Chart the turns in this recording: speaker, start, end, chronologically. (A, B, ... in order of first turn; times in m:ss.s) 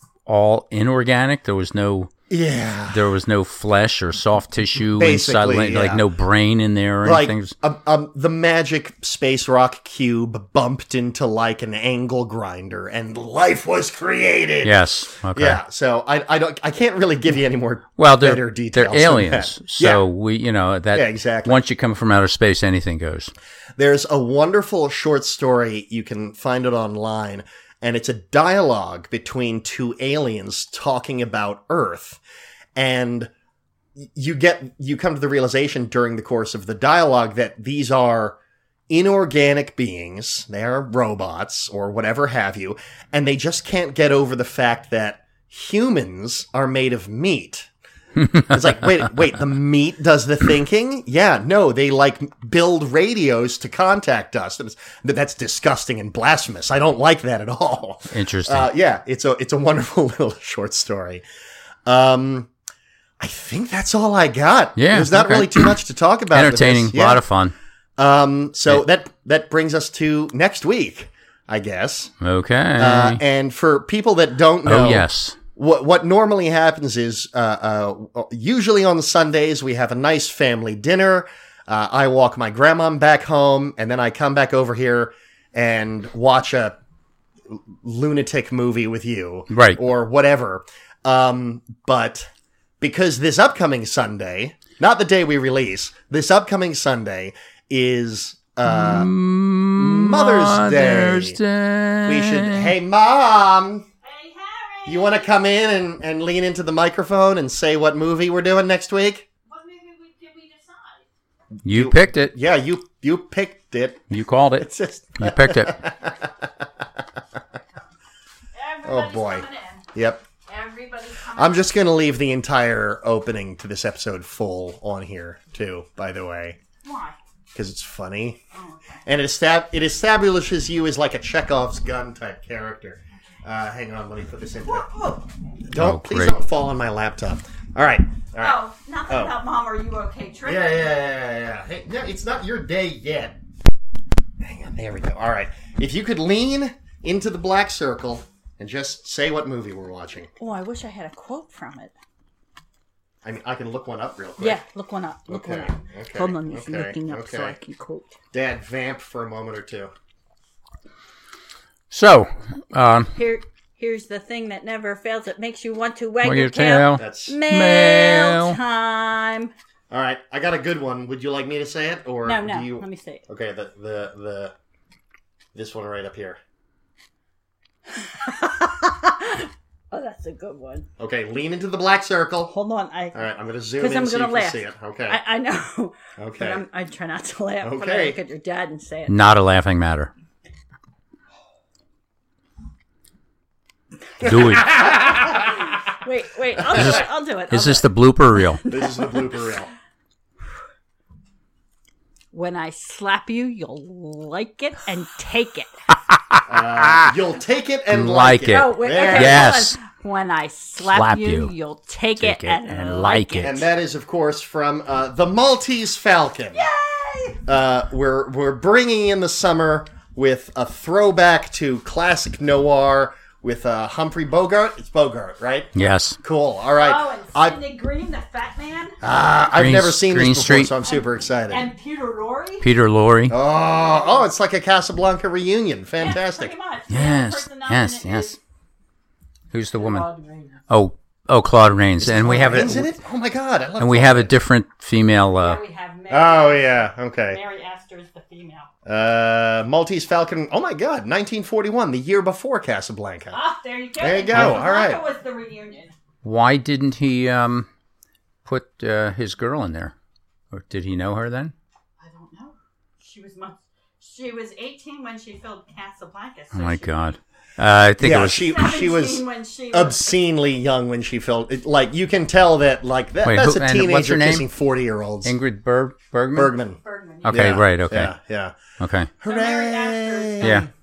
0:00.3-0:02.1 A
0:02.3-0:03.0 B
0:02.9-0:07.5 A
0:04.9-0:06.0 B
0:07.0-0:20.0 B
0:14.6-0:15.6 A
0:18.0-0:23.3 A
0:20.9-0:21.6 B
0:23.8-0:32.2 B
0:32.8-0:33.3 B
0:34.0-0:38.4 B
0:38.9-0:47.7 B
0:48.2-0:48.5 A
0:48.4-1:01.2 B
0:58.1-0:58.7 A
1:01.8-1:02.5 B
1:03.2-1:07.2 B
1:04.8-1:05.7 A
1:06.3-1:07.5 A
1:08.0-1:12.1 B
1:12.2-1:13.2 A
1:12.8-1:26.8 B
1:14.6-1:15.4 A
1:27.5-1:32.3 B
1:29.5-1:29.8 A
1:32.8-1:39.1 B
1:38.7-1:42.7 A
1:39.7-1:41.4 B
1:42.0-1:43.8 B
1:44.0-1:45.3 C
1:44.8-1:49.3 B
1:49.5-1:51.0 C
1:51.6-1:52.3 A
1:51.7-1:56.8 B
1:54.1-1:55.8 A
1:58.5-1:59.9 C
1:58.8-2:00.2 B
2:00.5-2:01.7 C
2:01.3-2:06.6 B
2:06.8-2:07.2 C
2:07.5-2:08.4 B
2:08.5-2:09.0 C
2:09.0-2:14.9 B
2:14.6-2:15.2 C
2:15.7-2:18.6 B
2:15.7-2:16.4 A
2:18.4-2:20.9 C
2:19.1-2:19.3 B
2:20.4-2:23.4 B
2:24.4-2:30.3 B
2:30.4-2:31.9 C
2:33.2-2:34.6 B
2:34.4-2:38.2 C
2:35.3-2:37.6 B
2:38.3-2:39.9 B
2:41.9-2:43.1 A
2:43.1-2:49.5 C
2:46.2-2:48.6 A
2:47.0-2:47.4 B
2:49.9-2:54.5 B
2:52.2-2:53.2 C
2:55.5-2:56.4 B
2:57.9-3:00.9 C
3:01.0-3:02.5 B
3:02.5-3:03.2 C
3:03.1-3:05.2 B
3:03.8-3:09.2 C
3:06.2-3:06.6 B
3:07.6-3:08.2 B
3:09.1-3:10.1 A
3:14.2-3:14.8 A
3:14.2-3:15.5 B
3:14.6-3:19.4 C
3:16.7-3:18.6 A
3:18.7-3:19.7 B
3:22.3-3:25.7 C
3:26.1-3:27.1 A
3:26.4-3:29.5 B
3:27.9-3:29.8 A
3:28.5-3:33.5 C
3:30.8-3:31.5 A
3:32.2-3:33.6 A
3:33.4-3:36.6 B
3:36.5-3:37.4 C
3:37.4-3:47.6 B
3:45.7-3:46.2 A
3:46.7-3:49.0 C
3:49.0-3:51.7 B
3:49.6-3:50.7 A
3:50.9-3:52.6 C
3:52.6-3:53.3 A
3:53.3-3:56.5 B
3:53.4-3:54.3 C
3:56.0-3:58.4 C
3:56.9-3:58.4 A
3:59.5-4:00.0 A
3:59.7-4:00.6 C
4:00.7-4:02.9 A
4:02.0-4:04.3 B
4:03.8-4:05.6 A
4:05.4-4:08.7 C
4:06.1-4:07.4 B
4:08.8-4:13.4 B
4:13.3-4:15.9 C
4:14.0-4:15.0 B
4:16.2-4:17.7 A
4:18.4-4:19.9 A
4:20.5-4:21.5 A
4:22.0-4:26.9 C
4:26.5-4:28.5 A
4:28.0-4:35.3 B
4:28.3-4:30.0 C
4:33.2-4:34.4 A
4:35.2-4:36.5 A
4:36.3-4:38.6 B
4:36.8-4:37.6 C
4:37.2-4:38.1 A
4:38.8-4:39.1 A
4:39.2-4:40.6 B
4:39.2-4:40.7 C
4:40.4-4:40.7 A